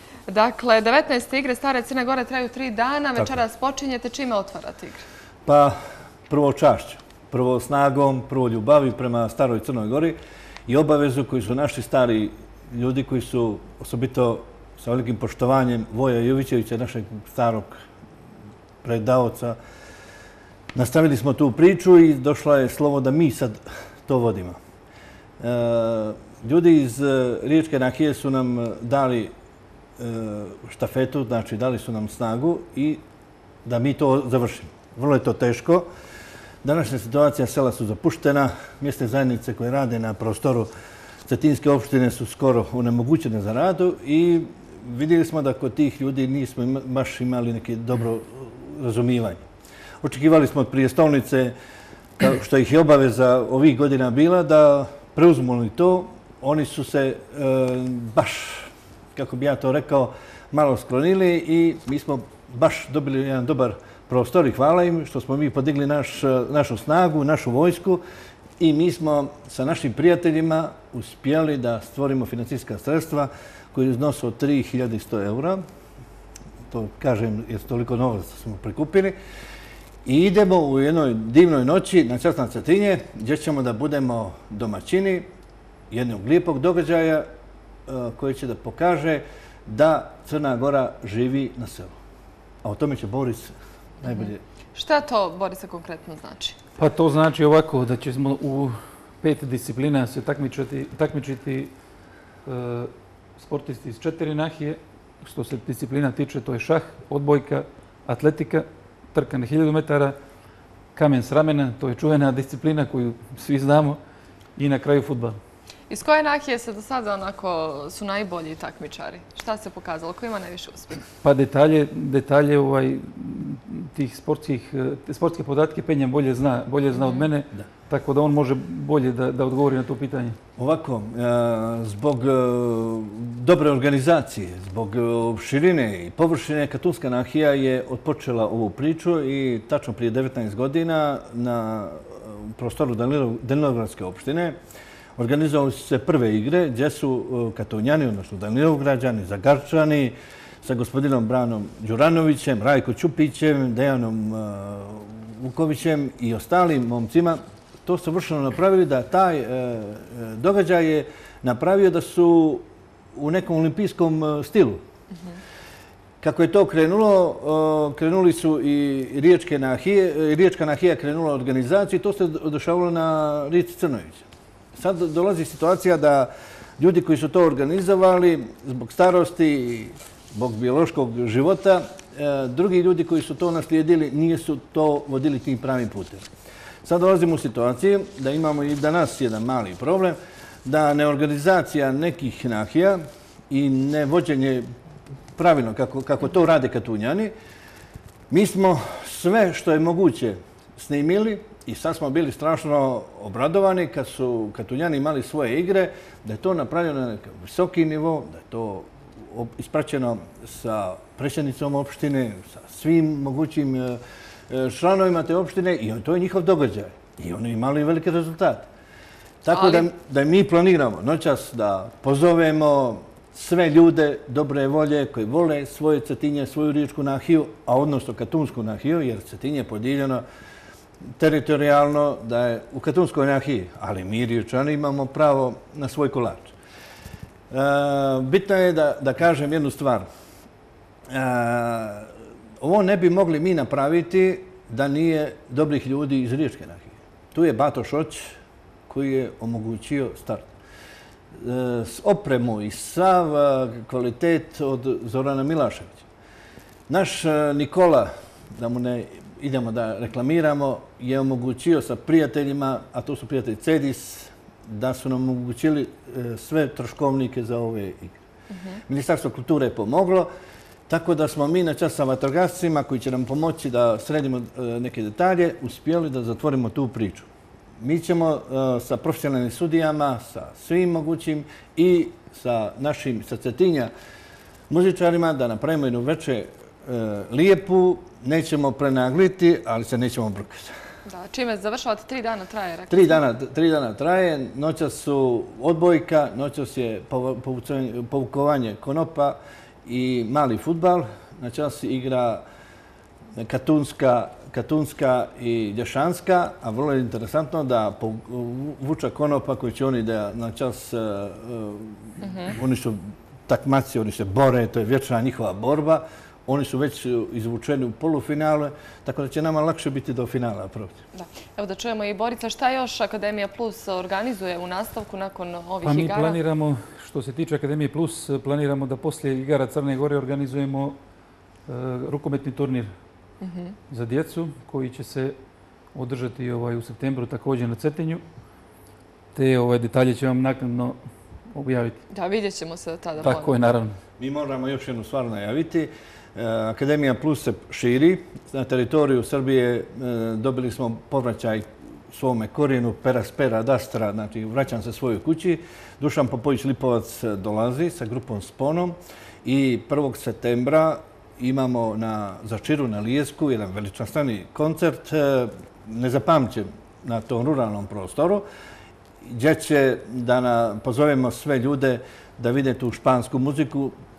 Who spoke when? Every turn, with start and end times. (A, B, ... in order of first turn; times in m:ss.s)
0:00.3-0:05.0 A
0:05.4-0:05.8 B
0:06.3-0:10.2 B
0:10.7-0:17.7 B
0:18.8-0:19.6 B
0:20.7-0:24.6 B
0:25.4-0:29.3 B
0:30.0-0:33.0 B
0:33.6-0:35.9 B
0:36.6-0:40.7 B
0:41.3-0:49.4 B
0:50.0-0:51.5 B
0:52.2-1:08.0 B
1:08.6-1:15.6 B
1:16.7-1:19.1 B
1:20.0-1:25.3 B
1:25.9-1:27.2 B
1:27.9-1:31.9 B
1:32.6-1:34.4 B
1:34.0-1:36.6 A
1:36.8-1:41.7 C
1:42.5-1:50.2 C
1:51.0-1:54.0 C
1:54.6-1:55.4 C
1:55.9-2:01.1 A
2:01.2-2:10.4 C
2:06.9-2:07.3 A
2:10.6-2:24.6 B
2:25.2-2:42.6 B
2:43.2-2:44.8 B
2:46.2-2:54.2 B
2:54.8-3:06.3 B
3:06.8-3:14.6 B
3:15.4-3:17.3 B
3:18.3-3:38.7 B
3:39.4-3:50.2 B
3:39.5-3:39.9 A
3:51.2-3:56.5 B
3:57.5-4:00.0 B
4:01.1-4:02.1 B
4:02.6-4:08.3 B
4:08.9-4:10.5 B
4:11.4-4:16.0 B
4:16.9-4:28.2 B
4:28.5-4:28.8 A
4:28.9-4:30.3 B
4:30.9-4:37.3 B
4:37.8-4:43.9 B
4:44.7-4:50.7 B
4:51.1-4:53.2 A
4:52.9-5:02.4 B
5:03.4-5:21.0 B
5:12.2-5:12.6 A
5:21.1-5:26.4 A
5:25.8-5:31.0 C
5:31.7-5:32.9 C
5:33.4-5:33.8 A
5:33.9-5:35.4 C
5:35.9-5:38.2 C
5:39.4-5:41.0 C
5:41.5-5:42.0 C
5:42.1-5:43.6 A
5:43.2-5:44.0 C
5:44.2-6:08.4 B
6:09.2-6:13.9 B